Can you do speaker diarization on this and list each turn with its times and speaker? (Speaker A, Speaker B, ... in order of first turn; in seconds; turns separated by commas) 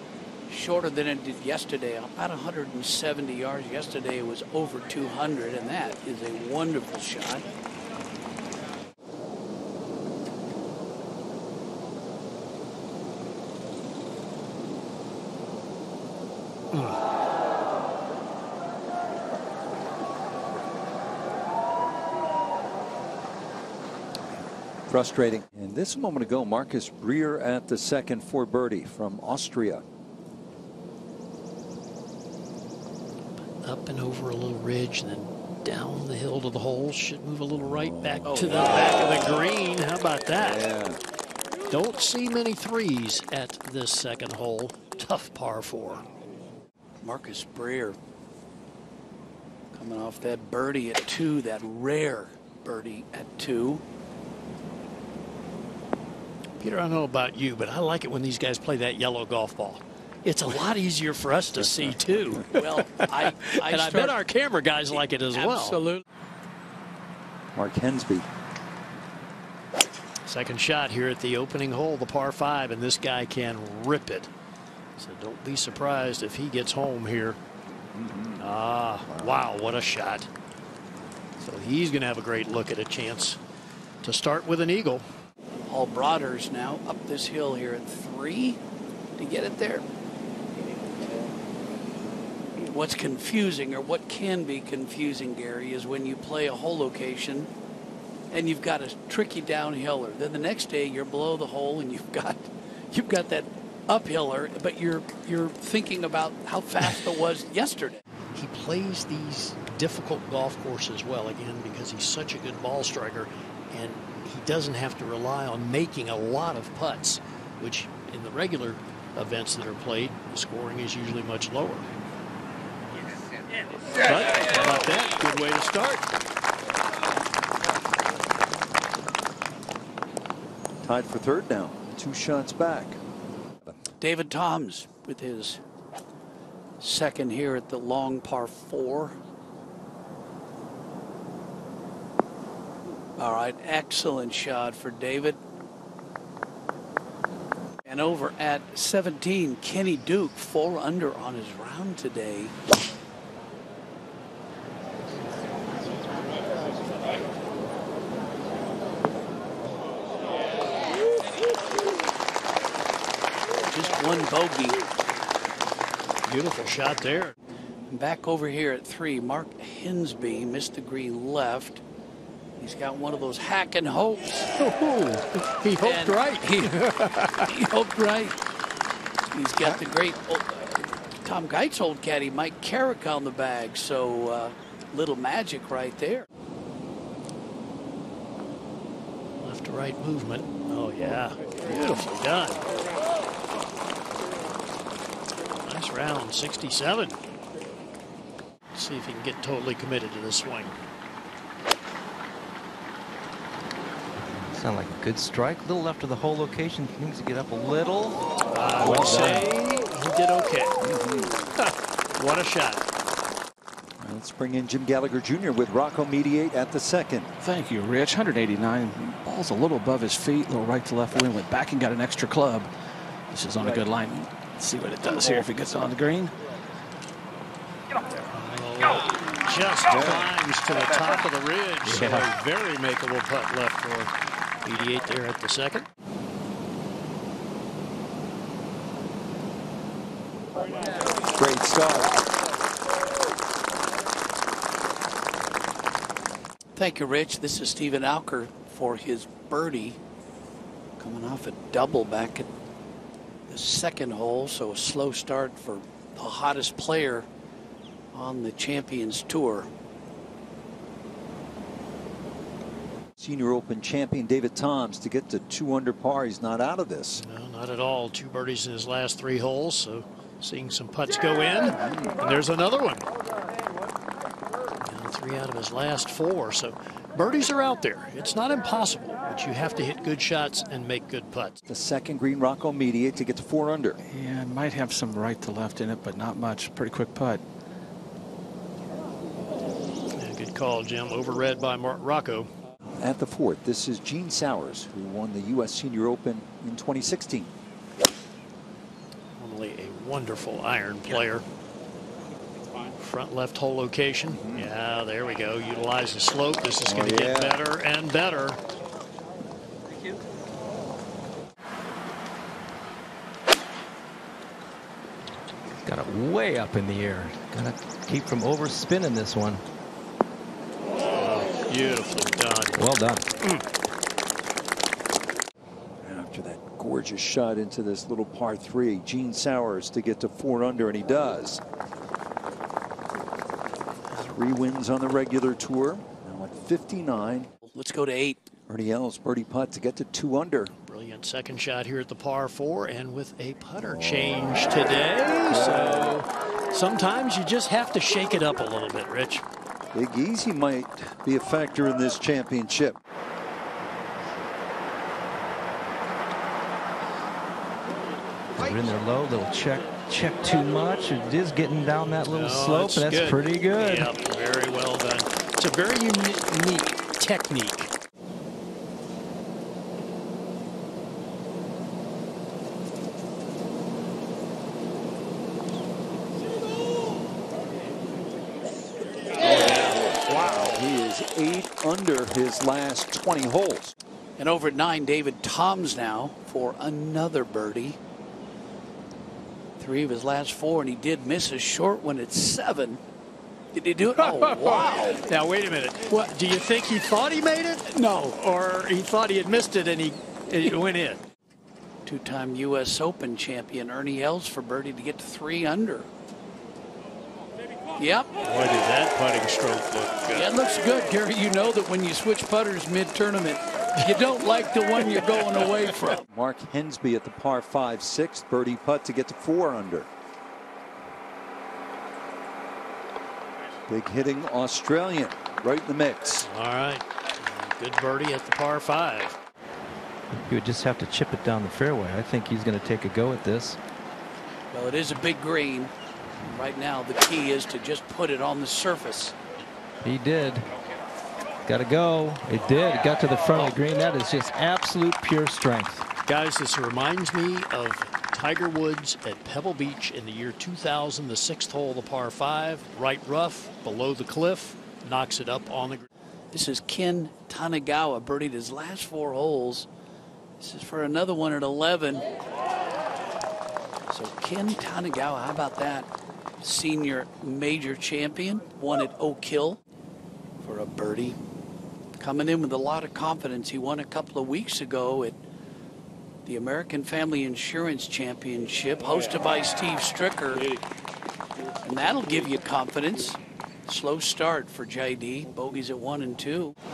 Speaker A: 0.5-7.5, Speaker B: 24.9-29.8, Speaker C: 33.6-40.6, Speaker B: 38.0-39.2, Speaker A: 38.2-38.9, Speaker B: 40.4-41.0, Speaker C: 41.7-46.0, Speaker A: 47.0-48.0, Speaker A: 49.7-53.8, Speaker C: 56.6-65.8, Speaker B: 61.6-62.4, Speaker A: 62.5-64.2, Speaker A: 64.9-66.0, Speaker B: 67.5-68.3, Speaker C: 70.2-74.3, Speaker C: 75.0-77.4, Speaker B: 77.9-78.5, Speaker C: 78.4-80.3, Speaker B: 79.1-79.4, Speaker C: 81.4-83.4, Speaker C: 84.0-85.0, Speaker A: 85.7-88.6, Speaker A: 89.2-89.8, Speaker A: 92.7-97.5, Speaker A: 98.3-108.0, Speaker C: 108.3-121.8, Speaker C: 124.0-126.0, Speaker B: 130.8-133.0, Speaker A: 134.0-135.6, Speaker A: 136.8-139.2, Speaker A: 143.2-145.4, Speaker A: 147.8-152.5, Speaker A: 163.6-164.8, Speaker C: 166.2-167.3, Speaker A: 167.9-171.8, Speaker A: 172.6-174.5, Speaker C: 174.5-177.5, Speaker A: 175.8-176.8, Speaker A: 177.4-178.4, Speaker A: 179.3-186.2, Speaker C: 189.4-192.6, Speaker C: 195.6-197.2, Speaker C: 198.7-200.8, Speaker D: 204.3-209.5, Speaker C: 208.5-210.8, Speaker E: 208.8-209.4, Speaker B: 210.8-211.3, Speaker C: 211.6-212.8, Speaker B: 214.0-217.3, Speaker E: 217.4-222.7, Speaker E: 223.3-226.3, Speaker C: 228.3-234.1, Speaker B: 229.9-230.3, Speaker E: 231.9-232.2, Speaker C: 234.6-235.8, Speaker B: 241.3-242.2, Speaker A: 246.8-250.0, Speaker A: 251.0-252.5, Speaker A: 253.5-257.3, Speaker A: 258.1-259.7, Speaker B: 263.2-267.2, Speaker C: 267.2-273.0, Speaker B: 271.7-272.2, Speaker C: 274.8-281.6, Speaker B: 281.6-284.0, Speaker E: 284.1-287.4, Speaker C: 290.1-292.5, Speaker B: 293.0-297.5, Speaker C: 299.4-301.4, Speaker C: 303.0-308.6, Speaker B: 304.3-304.7, Speaker B: 306.9-307.6, Speaker D: 315.8-319.6, Speaker C: 321.1-322.8, Speaker D: 322.8-323.3, Speaker B: 326.0-331.6, Speaker B: 334.1-337.5, Speaker A: 337.6-338.5, Speaker B: 338.7-340.7, Speaker C: 340.9-349.4, Speaker B: 345.5-346.2, Speaker B: 349.9-353.0, Speaker D: 358.6-364.1, Speaker C: 362.3-367.9, Speaker C: 379.4-380.8, Speaker B: 379.4-383.9, Speaker A: 384.4-388.0, Speaker A: 389.8-393.0, Speaker A: 393.7-395.2, Speaker C: 394.1-401.2, Speaker A: 397.9-398.4, Speaker A: 402.0-406.1, Speaker A: 408.0-408.3, Speaker C: 408.4-410.5, Speaker A: 410.3-416.2, Speaker B: 416.3-420.1, Speaker B: 423.9-426.5, Speaker C: 426.4-429.4, Speaker D: 430.3-433.8, Speaker A: 434.7-439.3, Speaker D: 440.0-440.7, Speaker D: 441.6-446.1, Speaker C: 446.2-456.1, Speaker A: 456.5-459.9, Speaker A: 460.6-462.3, Speaker A: 464.1-466.1, Speaker A: 466.6-469.8, Speaker A: 470.6-471.4, Speaker A: 472.2-475.4, Speaker A: 476.4-480.7, Speaker A: 481.8-486.7